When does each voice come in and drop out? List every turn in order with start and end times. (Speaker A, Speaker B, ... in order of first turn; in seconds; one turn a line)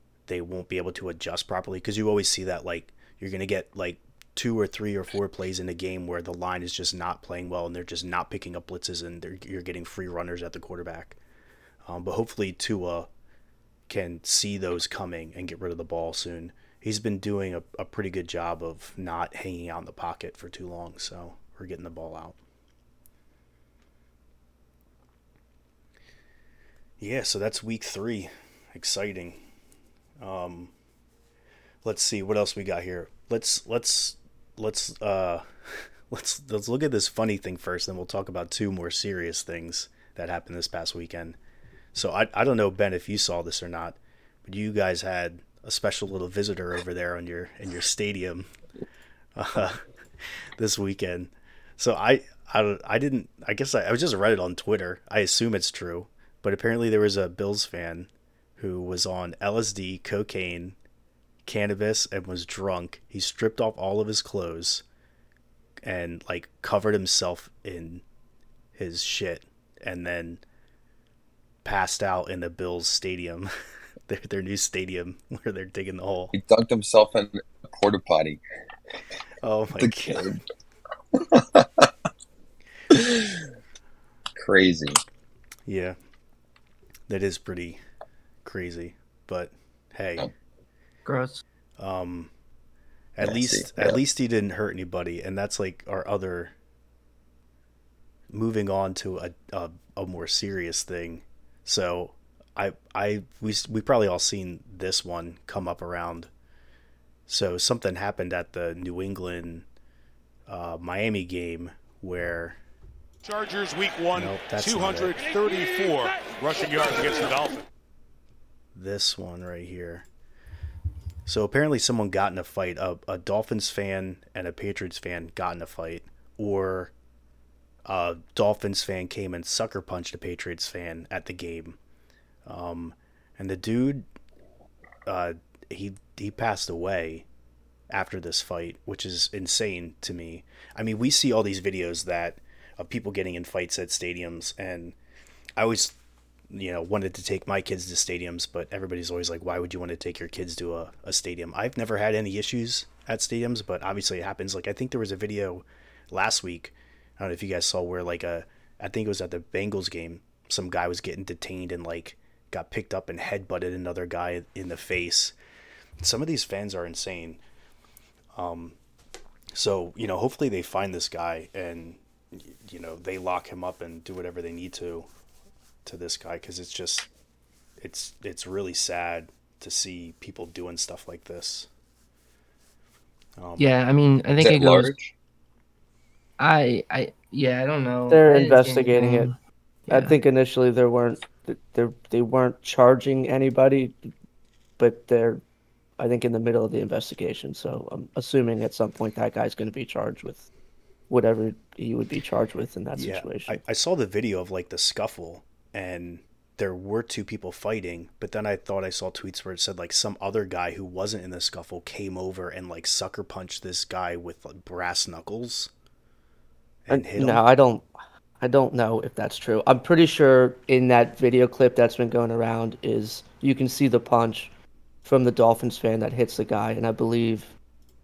Speaker A: 0.3-11.2
Speaker A: 11.8-13.1
Speaker A: 13.9-22.4
Speaker A: 27.0-29.4
Speaker A: 30.2-30.7
Speaker A: 31.8-41.4
Speaker A: 41.9-48.5
Speaker A: 49.4-49.9
Speaker A: 50.6-60.8
Speaker A: 61.5-64.8
Speaker A: 65.8-68.0
Speaker A: 68.8-70.4
Speaker A: 71.6-73.5
Speaker A: 74.1-76.3
Speaker B: 76.3-78.4
Speaker A: 79.4-80.4
Speaker B: 79.8-80.4
Speaker B: 81.2-81.9
Speaker B: 82.9-83.4
Speaker B: 84.4-85.0
Speaker A: 85.7-86.0
Speaker A: 87.1-87.8
Speaker A: 88.4-90.3
Speaker C: 91.1-91.4
Speaker A: 91.8-92.3
Speaker A: 93.2-96.5
Speaker B: 93.2-94.0
Speaker A: 98.3-106.3
Speaker A: 107.3-109.7
Speaker A: 110.5-112.6
Speaker D: 113.2-117.7
Speaker A: 114.1-115.2
Speaker A: 118.7-120.1
Speaker A: 121.3-126.9
Speaker A: 127.8-131.8
Speaker A: 132.5-134.1
Speaker A: 135.1-137.3
Speaker A: 137.9-145.0
Speaker A: 145.6-146.0
Speaker A: 146.5-165.4
Speaker A: 166.0-167.4
Speaker A: 168.3-168.8
Speaker A: 169.5-175.1
Speaker A: 175.8-177.1
Speaker A: 177.8-181.7
Speaker A: 183.4-183.7
Speaker C: 183.6-184.9
Speaker B: 184.4-185.1
Speaker C: 186.4-190.1
Speaker E: 188.1-189.3
Speaker E: 189.9-194.1
Speaker E: 194.8-195.4
Speaker E: 196.0-200.5
Speaker E: 201.1-203.6
Speaker A: 202.9-215.7
Speaker A: 216.8-217.4
Speaker E: 216.9-217.9
Speaker E: 218.4-224.5
Speaker E: 225.1-227.5